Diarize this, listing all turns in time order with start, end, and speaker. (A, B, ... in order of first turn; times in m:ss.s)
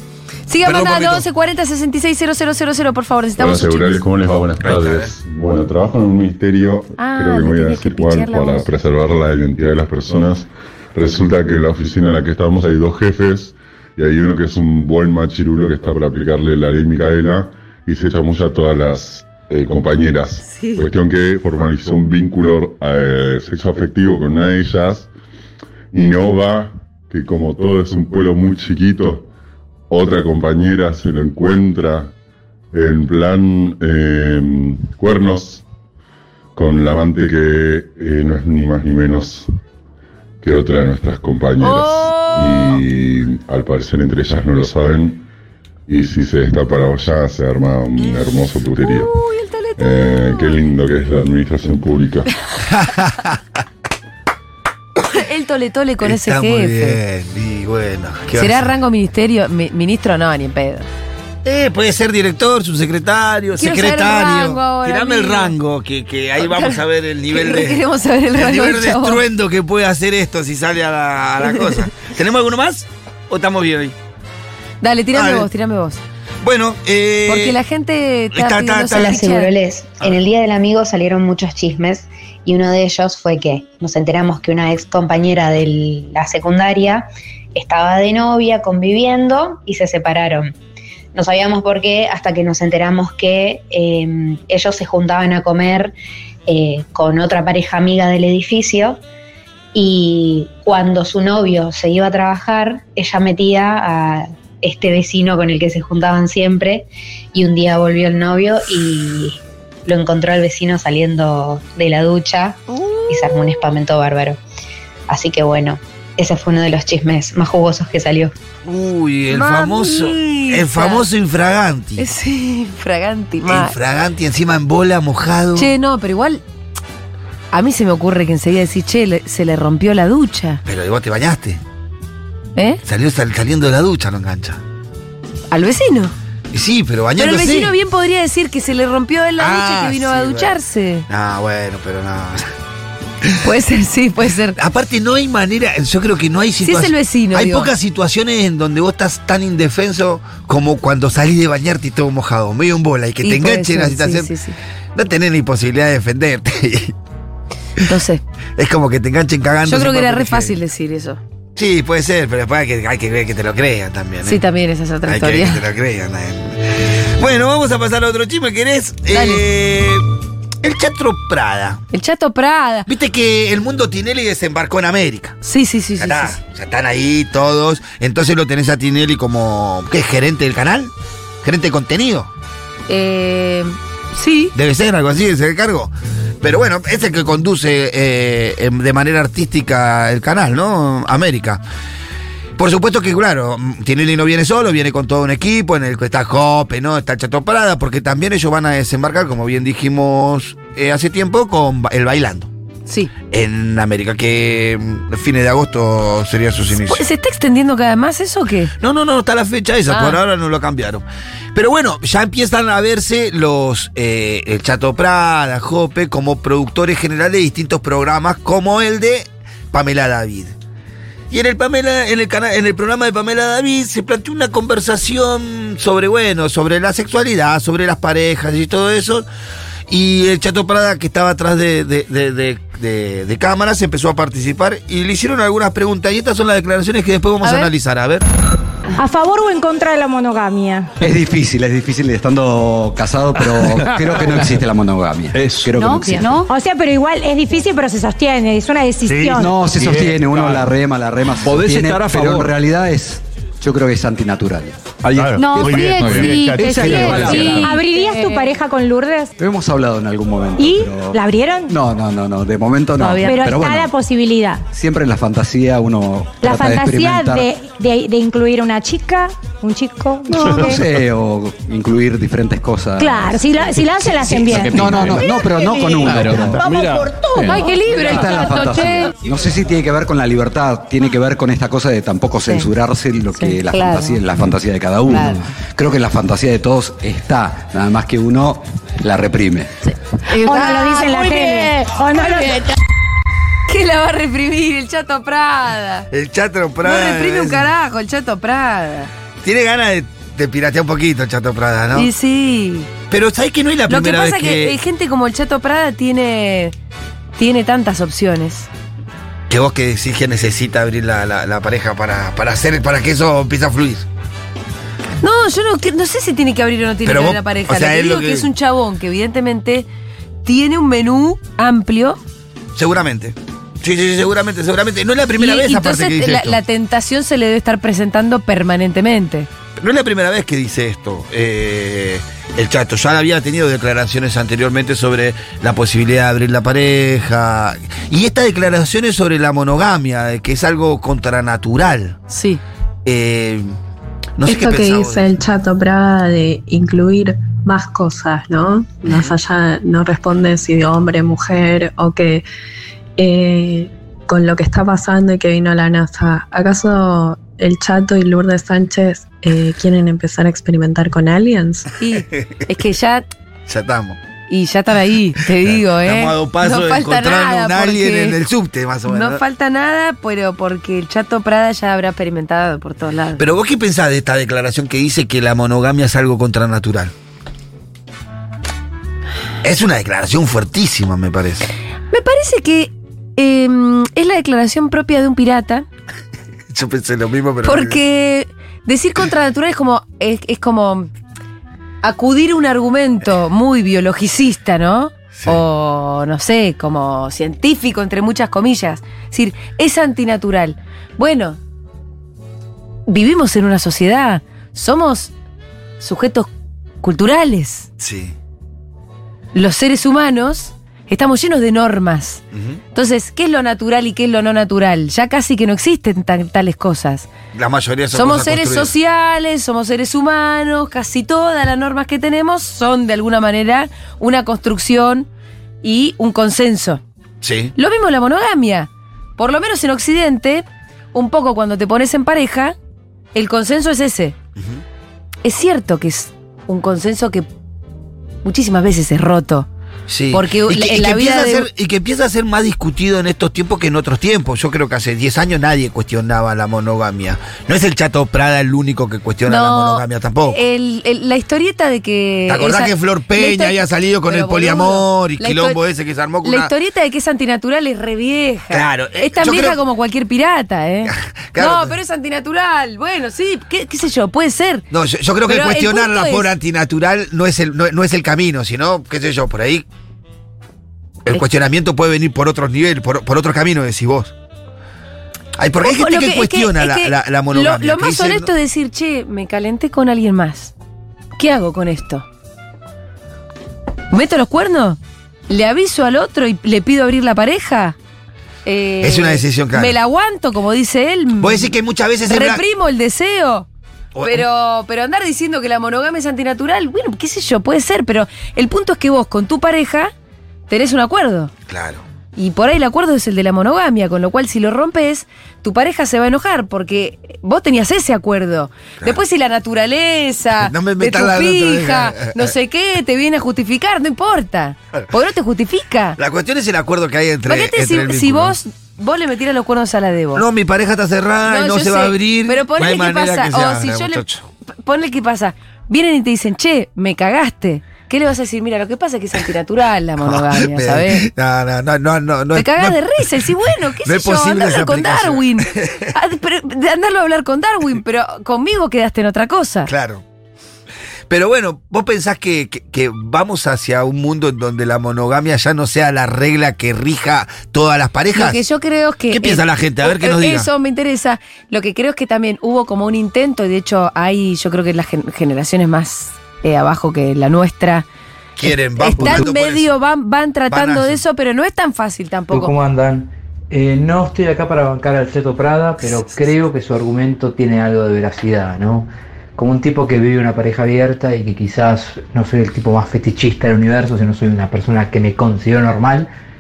0:00.5-0:04.0 A
0:00.6-0:01.3 B
0:03.4-0:25.1 C
0:04.6-0:05.1 B
0:07.0-0:08.7 A
0:20.4-0:20.8 A
0:25.9-0:29.3 C
0:29.9-0:32.1 C
0:32.7-0:35.6 C
0:36.6-0:39.5 C
0:40.4-0:45.3 C
0:41.6-0:42.8 A
0:45.9-0:49.1 C
0:48.8-0:50.6 A
0:49.8-0:52.3 C
0:52.6-0:53.4 B
0:55.0-0:57.0 A
0:56.0-0:58.7 B
0:58.4-1:00.9 A
1:01.4-1:07.8 B
1:03.6-1:05.6 A
1:06.4-1:06.8 A
1:07.3-1:09.2 A
1:08.3-1:14.0 B
1:14.8-1:16.0 A
1:15.1-1:15.5 B
1:16.4-1:17.6 B
1:17.3-1:19.5 A
1:18.3-1:19.2 B
1:18.9-1:30.5 D
1:31.1-1:36.0 D
1:36.5-1:39.0 D
1:39.7-1:54.4 D
1:52.7-1:53.6 A
1:55.1-1:58.3 D
1:58.6-2:02.1 B
1:59.3-2:01.1 A
2:02.0-2:03.8 A
2:03.4-2:05.7 B
2:05.6-2:06.4 A
2:07.5-2:10.6 A
2:10.6-2:11.6 B
2:12.6-2:12.8 A
2:12.8-2:14.6 B
2:15.5-2:16.1 A
2:16.5-2:17.8 B
2:17.2-2:21.1 A
2:19.4-2:20.5 B
2:21.1-2:22.5 B
2:23.4-2:24.6 A
2:24.6-2:34.3 B
2:26.6-2:27.7 A
2:33.2-2:34.6 A
2:35.0-2:37.0 B
2:37.8-2:38.2 A
2:38.6-2:40.6 B
2:39.7-2:41.2 A
2:41.6-2:44.4 B
2:44.2-2:45.6 A
2:45.1-2:50.0 B
2:49.1-2:49.4 A
2:50.6-2:51.8 B
2:51.9-2:52.9 A
2:52.9-2:55.4 B
2:55.4-2:56.4 A
2:56.0-3:00.9 B
3:01.4-3:02.3 B
3:02.9-3:04.5 A
3:04.6-3:11.6 B
3:12.6-3:22.5 B
3:22.9-3:23.1 A
3:23.3-3:27.0 B
3:26.7-3:28.7 A
3:28.8-3:40.6 B
3:29.9-3:30.2 A
3:41.3-3:49.3 B
3:49.9-3:58.2 B
3:57.4-3:57.7 A
3:59.0-4:00.9 E
4:01.0-4:06.4 F
4:03.4-4:04.5 G
4:05.3-4:06.1 G
4:05.8-4:09.6 E
4:09.0-4:10.7 G
4:09.3-4:14.8 F
4:11.4-4:12.5 G
4:15.0-4:17.8 G
4:15.4-4:19.3 E
4:15.5-4:17.7 F
4:19.4-4:23.9 F
4:20.6-4:21.8 E
4:23.0-4:24.6 E
4:24.7-4:27.5 F
4:26.4-4:30.9 E
4:30.3-4:36.7 F
4:30.4-4:30.8 G
4:33.0-4:35.9 E
4:34.2-4:35.3 G
4:35.8-4:38.3 G
4:36.6-4:39.0 E
4:37.6-4:49.7 F
4:43.4-4:43.8 A
4:50.3-4:52.7 E
4:53.7-4:56.1 A
4:56.1-4:57.7 B
4:56.8-4:59.1 A
4:59.4-5:02.1 B
5:01.9-5:02.9 A
5:03.1-5:04.8 B
5:03.9-5:06.8 A
5:07.4-5:08.7 A
5:09.5-5:14.1 B
5:15.2-5:19.9 A
5:17.0-5:18.5 B
5:20.4-5:22.2 A
5:22.8-5:26.6 B
5:25.4-5:29.5 A
5:29.8-5:42.2 B
5:42.3-5:42.6 A
5:43.0-5:43.7 B
5:44.4-5:45.3 B
5:44.4-5:52.4 H
5:53.2-6:01.9 H
6:02.0-6:03.3 A
6:03.7-6:04.2 B
6:04.5-6:08.4 A
6:05.5-6:09.4 B
6:09.1-6:13.4 A
6:13.4-6:17.1 B
6:19.6-6:21.7 B
6:22.1-6:25.9 A
6:26.7-6:28.0 B
6:27.6-6:31.1 A
6:32.0-6:41.6 A
6:35.3-6:35.6 B
6:43.1-6:45.3 A
6:46.0-6:46.5 A
6:47.0-6:47.9 A
6:48.0-6:48.4 B
6:49.5-6:52.4 A
6:52.5-6:52.8 B
6:52.9-6:57.3 A
6:57.5-6:58.9 B
6:58.1-7:05.3 A
7:05.8-7:07.0 A
7:07.4-7:07.7 B
7:07.8-7:12.8 A
7:13.4-7:14.4 A
7:14.6-7:14.8 B
7:15.4-7:17.5 A
7:18.4-7:19.7 A
7:20.1-7:30.6 B
7:20.3-7:21.7 A
7:29.5-7:35.8 A
7:32.5-7:36.7 B
7:36.4-7:44.9 A
7:38.7-7:39.8 B
7:41.0-7:42.0 B
7:44.9-7:49.9 B
7:45.4-7:46.5 A
7:51.2-7:54.3 B
7:55.6-7:58.5 B
7:55.8-8:00.7 A
8:01.4-8:02.2 A
8:04.1-8:08.0 A
8:08.7-8:11.7 A
8:09.0-8:10.0 B
8:11.4-8:12.6 B
8:12.2-8:13.7 A
8:14.1-8:14.5 B
8:14.2-8:20.1 A
8:20.7-8:21.5 A
8:21.7-8:22.0 B
8:22.4-8:36.2 A
8:30.6-8:32.6 B
8:36.2-8:38.6 B
8:37.5-8:40.4 A
8:40.3-8:44.5 B
8:41.5-8:44.2 A
8:44.8-8:51.3 A
8:50.2-8:53.4 B
8:52.6-8:59.9 A
8:54.0-8:56.1 B
8:59.9-9:00.2 B
9:01.3-9:08.6 B
9:08.3-9:18.1 A
9:09.3-9:10.7 B
9:18.6-9:20.0 B
9:19.0-9:22.7 A
9:19.2-9:19.5 I
9:20.7-9:21.2 B
9:22.5-9:36.3 I